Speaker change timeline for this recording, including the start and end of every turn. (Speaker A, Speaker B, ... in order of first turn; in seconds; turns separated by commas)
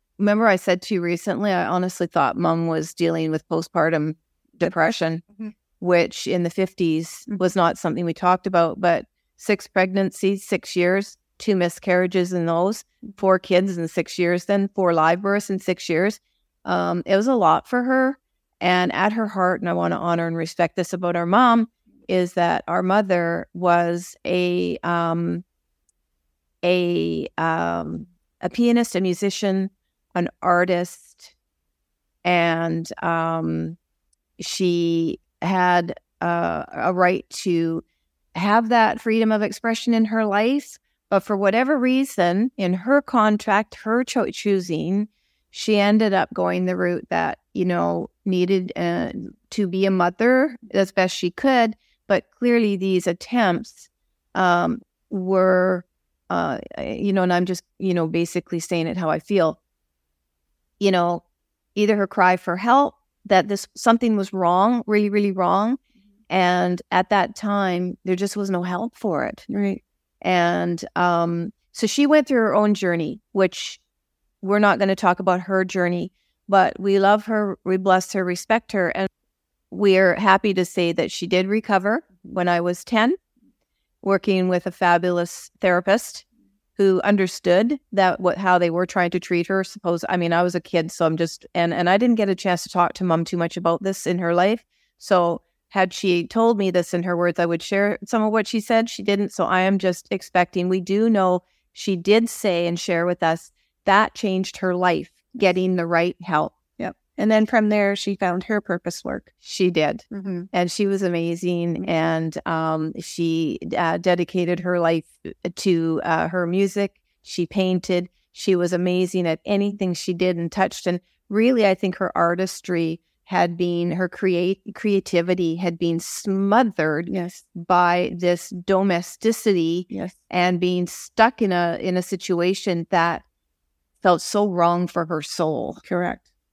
Speaker A: 0.2-5.2, Speaker A: 5.8-25.4, Speaker A: 26.6-31.3, Speaker A: 32.2-33.8, Speaker A: 34.4-59.6, Speaker A: 60.8-61.2, Speaker A: 61.7-65.8, Speaker A: 66.3-69.5, Speaker B: 69.5-69.8, Speaker A: 70.2-73.8, Speaker A: 74.4-79.1, Speaker A: 79.7-83.2, Speaker A: 84.0-86.2, Speaker A: 86.8-106.5, Speaker B: 106.8-109.3, Speaker A: 109.4-133.2, Speaker B: 110.1-110.5, Speaker B: 127.1-127.4, Speaker A: 134.0-135.8, Speaker B: 135.8-136.2